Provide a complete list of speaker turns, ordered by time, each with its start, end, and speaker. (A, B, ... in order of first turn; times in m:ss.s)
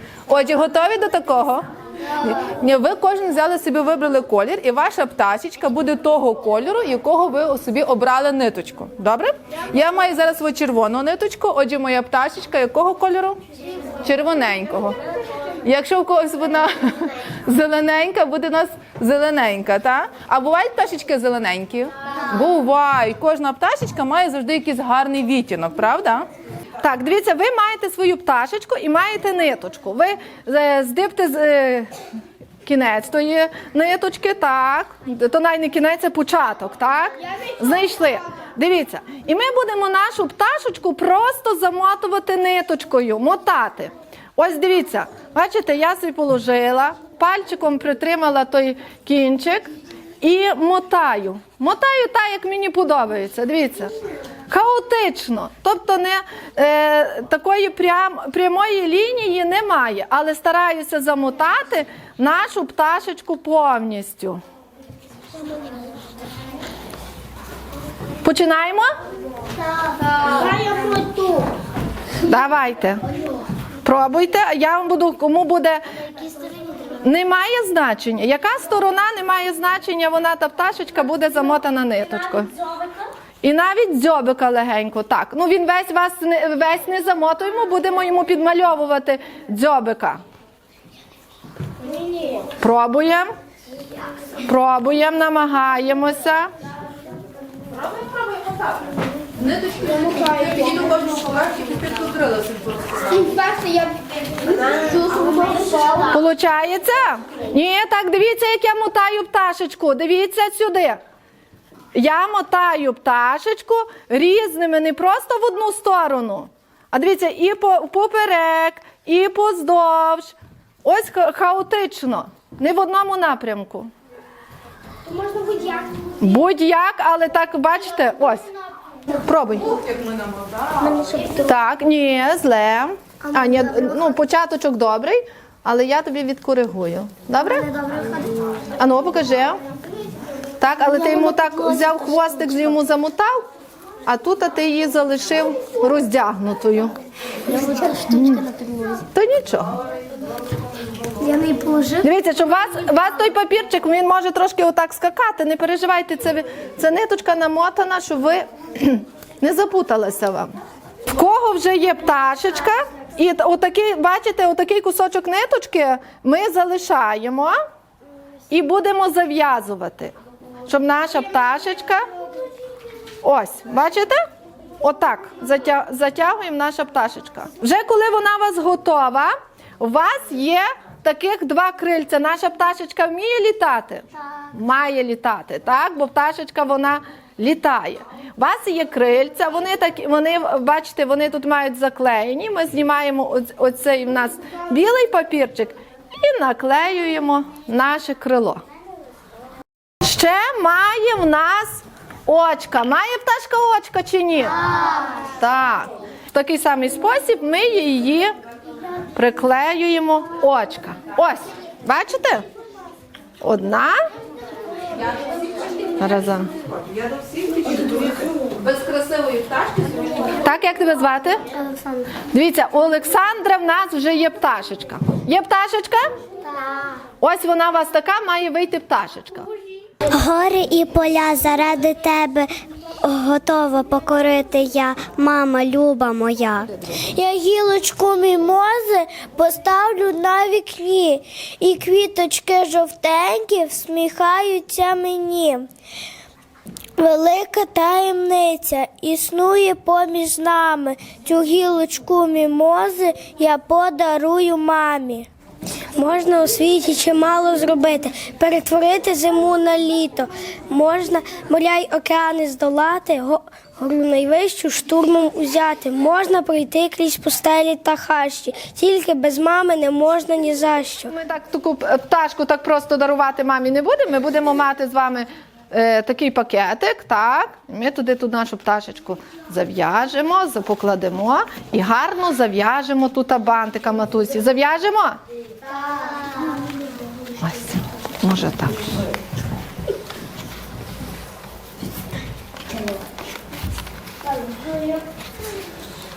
0:00.3-0:13.4 A
0:14.0-0:15.0 A
0:15.6-0:26.3 A
0:26.8-0:31.9 B
0:32.6-0:49.7 B
0:50.2-0:53.9 B
0:54.5-1:04.4 B
1:08.2-1:08.9 B
1:10.0-1:11.4 C
1:10.7-1:11.5 D
1:12.2-1:13.0 B
1:13.8-1:15.8 B
1:17.0-1:22.5 B
1:23.4-1:30.2 B
1:32.6-1:33.3 B
1:34.4-1:36.5 B
1:37.7-1:43.6 A
1:43.6-1:44.0 D
1:44.5-1:46.0 D
1:46.0-1:51.0 B
1:52.0-2:03.9 B
2:05.2-2:05.8 C
2:06.2-2:08.5 B
2:09.1-2:09.8 B
2:09.7-2:10.9 A
2:10.8-2:11.5 C
2:11.4-2:17.7 B
2:17.7-2:18.6 C
2:18.8-2:19.6 B
2:20.6-2:23.5 B
2:21.2-2:22.2 C
2:24.1-2:26.9 B
2:27.5-2:29.1 C
2:28.1-2:28.5 B
2:29.2-2:29.8 B
2:31.2-2:32.1 C
2:32.0-2:40.6 B
2:41.1-2:47.6 B
2:48.5-2:50.1 B
2:50.7-2:52.0 B
2:53.2-2:54.2 B
2:54.8-3:18.6 B
3:20.0-3:24.6 B
3:25.4-3:28.3 B
3:29.2-3:32.4 B
3:33.4-3:34.0 B
3:35.0-3:40.4 A
3:36.0-3:36.5 B
3:40.4-3:41.4 B
3:41.6-3:42.2 C
3:42.2-3:46.0 B
3:47.2-3:49.5 B
3:50.1-4:05.7 C
4:07.0-4:15.3 C
4:16.0-4:31.1 C
4:31.1-4:45.2 B
4:47.4-4:49.0 B